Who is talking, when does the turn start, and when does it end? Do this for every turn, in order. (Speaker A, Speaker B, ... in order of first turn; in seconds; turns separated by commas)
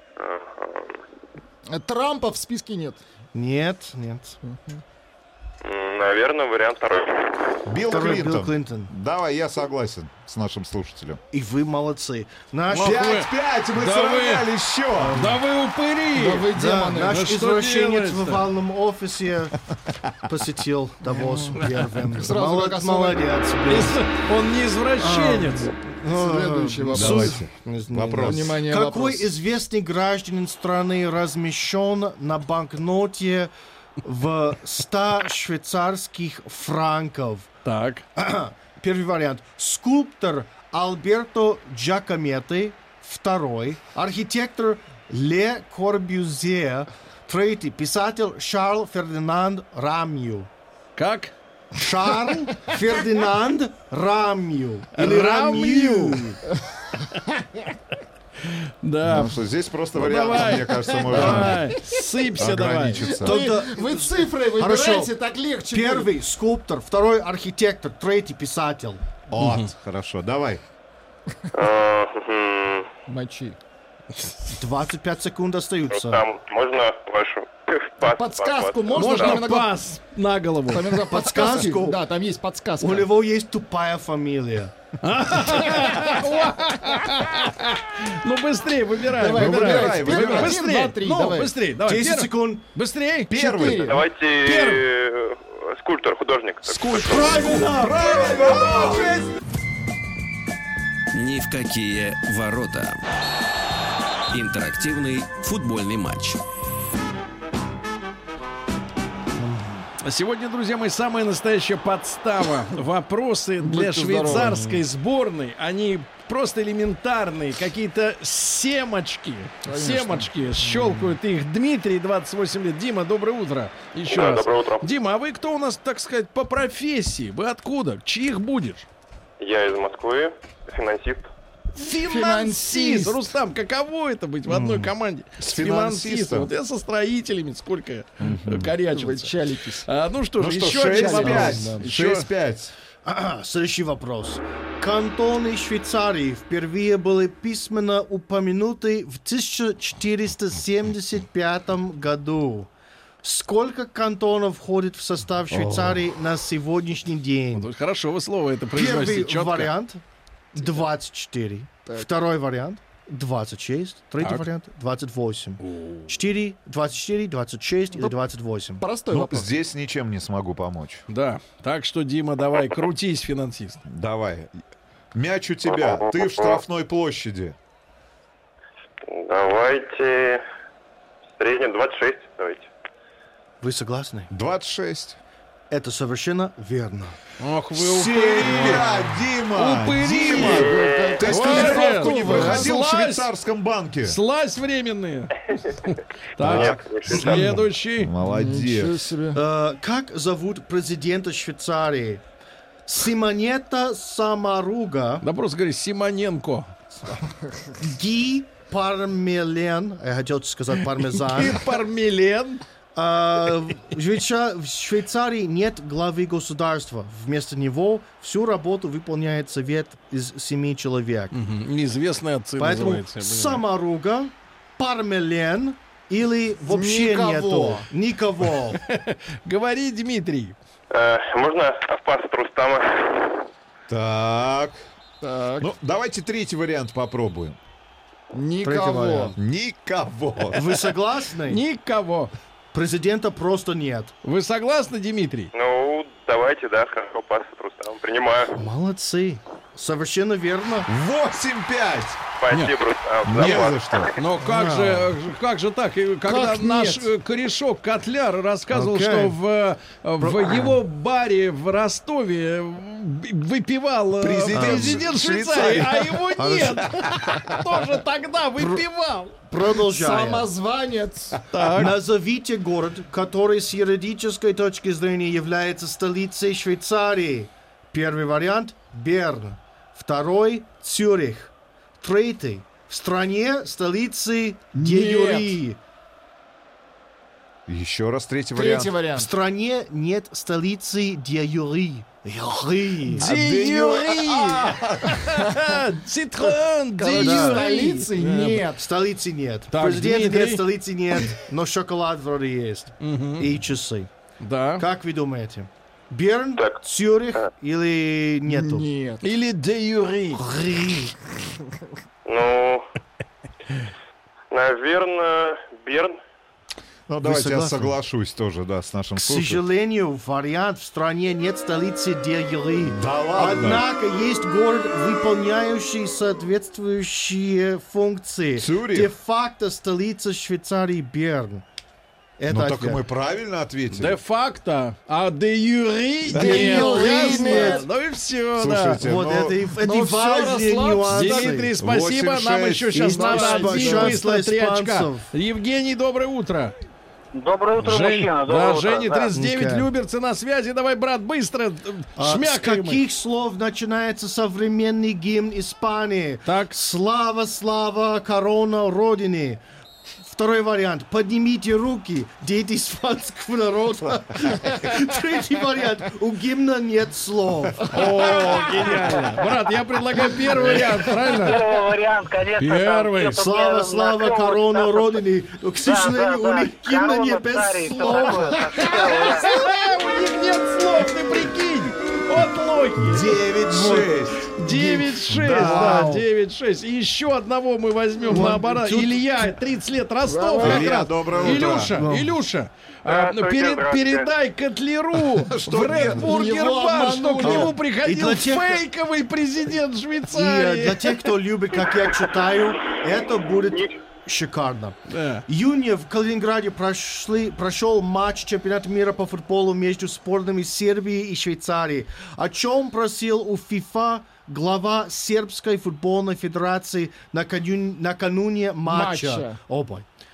Speaker A: 0.2-1.0, Speaker B: 1.7-3.0, Speaker C: 3.3-4.4, Speaker B: 4.4-4.8, Speaker A: 5.6-7.4, Speaker D: 7.7-11.2, Speaker C: 7.9-8.9, Speaker C: 11.3-13.1, Speaker E: 12.7-14.5, Speaker D: 12.7-15.2, Speaker C: 15.0-15.4, Speaker E: 15.1-16.5, Speaker B: 16.1-17.2, Speaker C: 16.5-19.6, Speaker E: 17.0-18.4, Speaker C: 20.2-24.0, Speaker B: 21.1-23.2, Speaker E: 23.7-25.7, Speaker C: 25.0-33.5, Speaker B: 26.1-27.5, Speaker D: 26.9-28.5, Speaker B: 28.2-29.3, Speaker C: 34.0-37.5, Speaker E: 37.6-38.0, Speaker C: 38.2-50.5, Speaker E: 51.0-51.3, Speaker C: 51.8-56.4, Speaker E: 55.0-56.4, Speaker E: 58.4-59.4, Speaker D: 59.0-61.8, Speaker E: 59.9-63.1, Speaker C: 61.1-61.5, Speaker D: 62.4-63.5, Speaker B: 63.0-66.1, Speaker C: 63.2-65.1, Speaker C: 65.7-69.0, Speaker D: 69.3-70.6, Speaker E: 69.4-69.7, Speaker A: 71.5-72.9, Speaker B: 73.1-73.6, Speaker C: 74.5-76.2, Speaker A: 75.9-79.2, Speaker B: 78.0-79.8, Speaker E: 79.0-81.0, Speaker B: 80.7-83.1, Speaker C: 81.1-82.0, Speaker C: 82.8-84.7, Speaker E: 85.0-93.3, Speaker B: 89.1-91.5, Speaker D: 89.3-90.6, Speaker C: 91.8-92.6, Speaker D: 93.3-94.0, Speaker B: 93.3-94.0, Speaker A: 93.9-97.3, Speaker E: 94.3-94.9, Speaker C: 96.7-99.2, Speaker D: 97.0-99.3, Speaker F: 101.1-103.0, Speaker F: 104.3-106.4, Speaker C: 109.4-109.8, Speaker E: 110.0-128.9, Speaker B: 113.6-114.6, Speaker C: 114.4-114.8, Speaker B: 119.6-121.1, Speaker A: 124.1-124.9, Speaker A: 129.4-131.3, Speaker E: 131.8-142.3, Speaker B: 132.0-133.2, Speaker C: 134.5-134.9, Speaker D: 135.4-136.5, Speaker C: 138.2-138.7, Speaker B: 138.9-139.9, Speaker D: 140.4-142.7, Speaker B: 140.9-141.7, Speaker C: 141.2-141.8, Speaker C: 143.1-152.7, Speaker C: 153.2-157.7, Speaker D: 155.5-156.0, Speaker E: 157.5-159.7, Speaker C: 158.7-160.0, Speaker C: 160.5-168.8, Speaker E: 164.2-164.5, Speaker E: 165.6-166.2, Speaker B: 168.8-169.6, Speaker D: 169.1-171.1, Speaker E: 171.1-173.8, Speaker D: 173.9-174.5, Speaker D: 175.1-177.6, Speaker A: 175.7-176.6, Speaker A: 179.1-180.4, Speaker A: 181.4-182.7, Speaker C: 183.6-184.3, Speaker D: 184.3-185.2, Speaker C: 185.7-187.2, Speaker E: 187.4-188.9, Speaker D: 187.7-194.2, Speaker E: 189.5-190.7, Speaker B: 190.1-192.7, Speaker A: 190.4-191.3, Speaker E: 191.2-193.3, Speaker E: 194.0-198.1, Speaker A: 196.4-197.3, Speaker D: 196.4-199.1, Speaker B: 198.2-199.4, Speaker C: 199.3-202.2, Speaker C: 202.9-205.2, Speaker E: 205.2-206.7, Speaker C: 207.8-211.8, Speaker E: 211.3-212.6, Speaker C: 212.9-221.3, Speaker E: 221.3-223.6, Speaker C: 222.6-228.8, Speaker B: 226.7-227.9, Speaker E: 228.7-230.6, Speaker A: 230.9-233.4, Speaker D: 233.9-234.8, Speaker B: 235.2-235.7, Speaker D: 235.6-237.6, Speaker B: 238.3-239.4, Speaker C: 238.6-239.4, Speaker D: 239.4-240.6, Speaker C: 240.5-241.6, Speaker E: 241.5-242.3, Speaker C: 242.7-244.1, Speaker E: 244.2-245.5, Speaker A: 245.5-248.6, Speaker C: 248.6-250.9, Speaker D: 250.9-252.2, Speaker A: 252.4-254.2, Speaker D: 253.3-254.1, Speaker E: 254.2-269.4, Speaker C: 254.4-255.1, Speaker B: 256.3-257.1, Speaker C: 258.7-259.4, Speaker C: 260.2-260.8, Speaker D: 264.2-267.4, Speaker C: 264.5-265.0, Speaker C: 266.4-266.9, Speaker C: 269.5-270.5, Speaker B: 269.8-271.4, Speaker E: 271.5-271.9, Speaker C: 271.7-285.8, Speaker B: 284.8-285.6, Speaker D: 287.7-288.9, Speaker B: 288.6-289.3, Speaker C: 289.2-293.3, Speaker E: 293.1-298.6, Speaker D: 293.1-295.3, Speaker B: 296.5-298.9, Speaker C: 297.1-297.9, Speaker C: 298.8-304.1, Speaker E: 299.7-300.6, Speaker E: 303.0-303.5, Speaker E: 304.4-304.9, Speaker C: 304.8-308.9, Speaker B: 308.5-309.2, Speaker E: 309.2-310.4, Speaker C: 310.3-311.1, Speaker A: 312.2-312.9, Speaker A: 314.5-316.2, Speaker D: 317.1-319.6, Speaker C: 317.2-317.9, Speaker C: 319.2-331.6, Speaker D: 322.8-323.9, Speaker D: 328.6-329.1, Speaker C: 332.4-333.0, Speaker D: 332.5-334.2, Speaker E: 333.9-339.0, Speaker B: 336.3-337.9, Speaker D: 336.3-337.3, Speaker C: 336.4-337.8, Speaker D: 338.6-339.7, Speaker C: 339.0-341.7, Speaker B: 339.8-341.6, Speaker E: 341.1-346.7, Speaker D: 341.8-343.1, Speaker C: 342.9-345.3, Speaker B: 343.0-344.2, Speaker G: 347.3-349.3, Speaker E: 347.8-353.0, Speaker C: 349.4-349.9, Speaker C: 352.2-359.6, Speaker E: 356.4-356.8, Speaker C: 360.2-368.4, Speaker E: 367.9-371.6, Speaker B: 370.5-370.9, Speaker G: 370.7-375.1, Speaker E: 372.6-373.4, Speaker C: 373.3-379.3, Speaker G: 375.9-379.7, Speaker B: 377.9-379.5, Speaker E: 379.2-383.4, Speaker D: 383.0-386.1, Speaker B: 383.6-384.1, Speaker E: 384.5-401.1, Speaker B: 384.8-386.2, Speaker C: 388.3-389.5, Speaker B: 390.2-391.5, Speaker D: 390.6-392.0, Speaker C: 391.7-392.4, Speaker A: 393.1-394.3, Speaker D: 395.3-396.3, Speaker B: 396.2-397.8, Speaker C: 397.4-398.8, Speaker C: 400.3-420.1, Speaker A: 403.7-404.0, Speaker E: 405.1-405.4, Speaker B: 418.9-419.6